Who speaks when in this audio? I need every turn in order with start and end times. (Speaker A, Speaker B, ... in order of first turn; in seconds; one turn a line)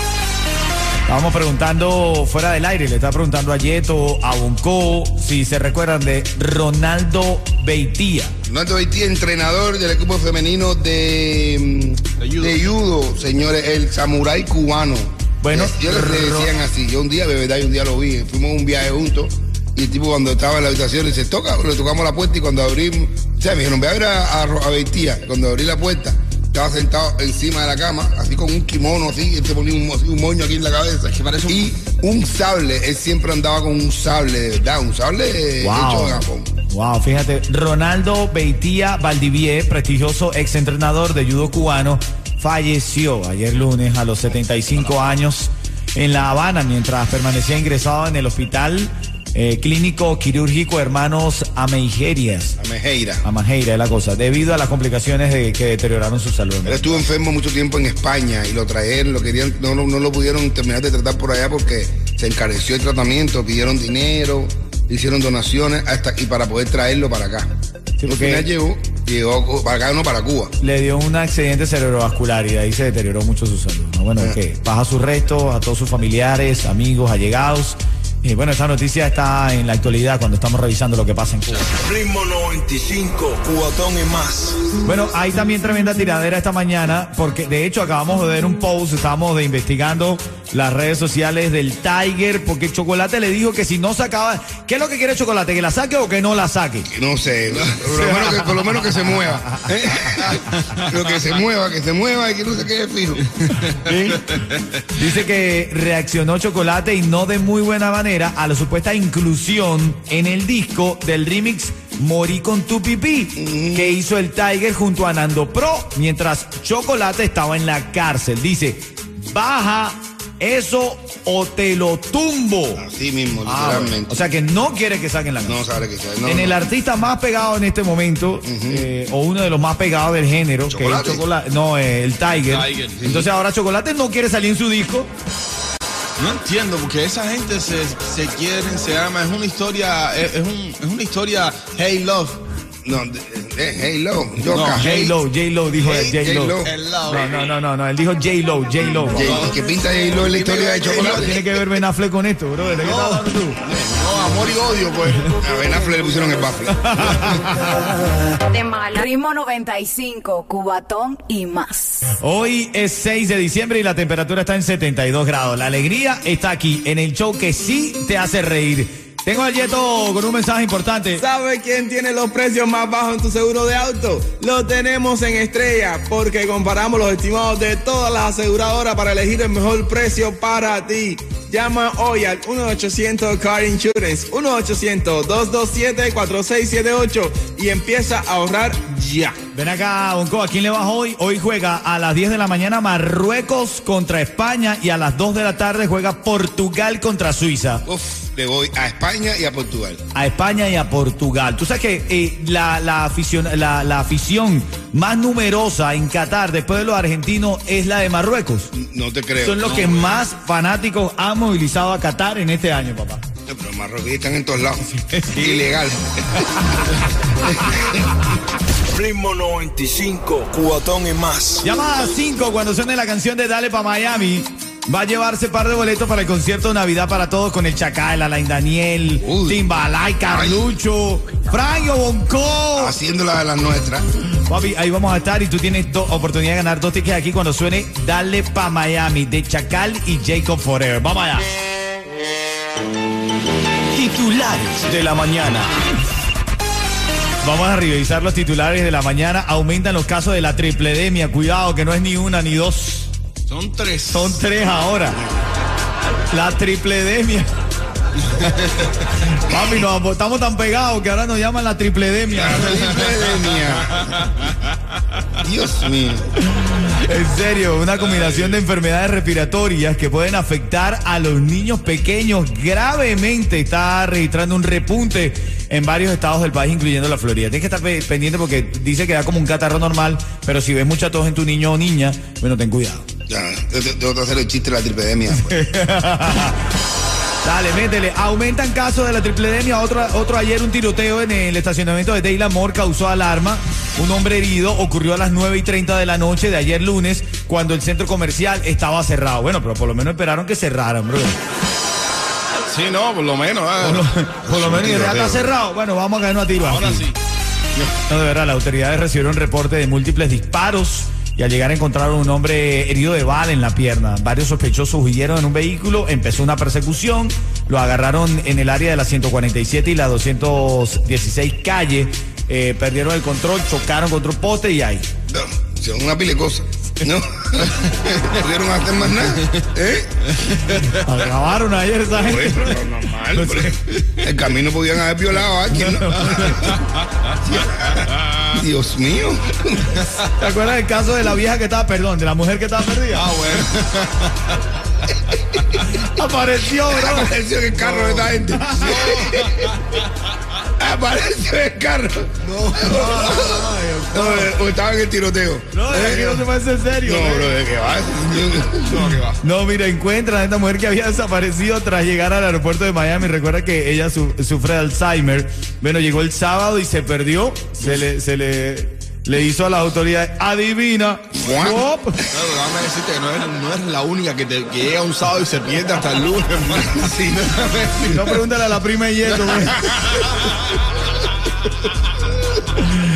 Speaker A: 1.1-8.3
Speaker B: 8.4-36.5
Speaker C: 12.2-12.6
Speaker A: 15.4-16.5
Speaker C: 31.1-31.7
Speaker A: 35.6-52.6
Speaker B: 52.6-53.2
Speaker A: 53.2-57.1
Speaker B: 56.6-67.5
Speaker A: 68.0-68.5
Speaker B: 68.1-70.5
Speaker A: 70.6-81.7
Speaker D: 81.7-84.6
Speaker A: 84.8-96.9
Speaker B: 96.9-103.6
Speaker A: 97.7-99.7
Speaker A: 103.9-104.1
Speaker C: 104.3-104.6
Speaker A: 104.9-122.8
Speaker B: 113.4-113.9
Speaker B: 122.8-124.2
Speaker A: 123.5-125.6
Speaker B: 125.5-126.6
Speaker A: 126.2-135.1
Speaker B: 128.4-128.9
Speaker B: 130.7-131.2
Speaker C: 132.4-133.0
Speaker B: 133.0-133.3
Speaker C: 136.2-142.4
Speaker B: 142.8-145.1
Speaker C: 144.5-144.9
Speaker A: 144.8-149.5
Speaker B: 145.8-146.7
Speaker C: 146.6-147.5
Speaker C: 149.1-151.4
Speaker B: 149.1-151.4
Speaker A: 150.9-153.6
Speaker C: 152.8-153.2
Speaker B: 153.6-154.3
Speaker C: 154.0-155.4
Speaker B: 155.4-157.0
Speaker A: 156.8-157.9
Speaker E: 158.5-162.0
Speaker A: 162.2-171.2
Speaker F: 171.2-189.4
Speaker A: 189.5-197.8
Speaker B: 197.9-200.0
Speaker A: 200.1-208.7
Speaker B: 208.7-209.8
Speaker A: 209.4-213.2
Speaker B: 213.5-216.6
Speaker A: 214.9-215.7
Speaker B: 217.5-218.0
Speaker D: 218.9-221.7
Speaker A: 221.6-233.0
Speaker B: 229.2-229.6
Speaker B: 230.3-230.7
Speaker B: 232.8-234.1
Speaker A: 234.5-241.5
Speaker A: 243.9-245.7
Speaker A: 247.4-253.1
Speaker C: 253.5-254.4
Speaker A: 254.1-255.2
Speaker A: 256.3-257.5
Speaker C: 258.3-258.9
Speaker A: 259.2-262.8
Speaker B: 259.5-259.8
Speaker B: 262.3-264.1
Speaker C: 264.0-264.5
Speaker B: 265.4-266.3
Speaker A: 266.5-283.1
Speaker C: 268.0-268.6
Speaker B: 283.3-285.6
Speaker A: 285.4-286.6
Speaker A: 287.4-301.4
Speaker C: 302.7-304.1
Speaker A: 303.8-307.1
Speaker B: 304.5-305.5
Speaker C: 306.6-307.1
Speaker A: 308.1-325.1
Speaker B: 325.3-330.1
Speaker A: 330.7-333.8
Speaker B: 332.1-336.8
Speaker A: 335.7-336.6
Speaker B: 337.4-340.0
Speaker A: 340.4-343.3
Speaker C: 343.1-344.6
Speaker A: 345.9-349.1
Speaker B: 346.9-349.7
Speaker C: 349.0-349.4
Speaker B: 350.8-356.4
Speaker C: 352.4-353.0
Speaker A: 352.8-354.5
Speaker A: 355.7-357.6
Speaker B: 357.0-359.2
Speaker C: 358.8-359.4
Speaker A: 359.4-372.2
Speaker B: 371.4-372.3
Speaker C: 372.3-378.3
Speaker B: 377.0-377.4
Speaker A: 378.0-379.9
Speaker C: 379.3-380.5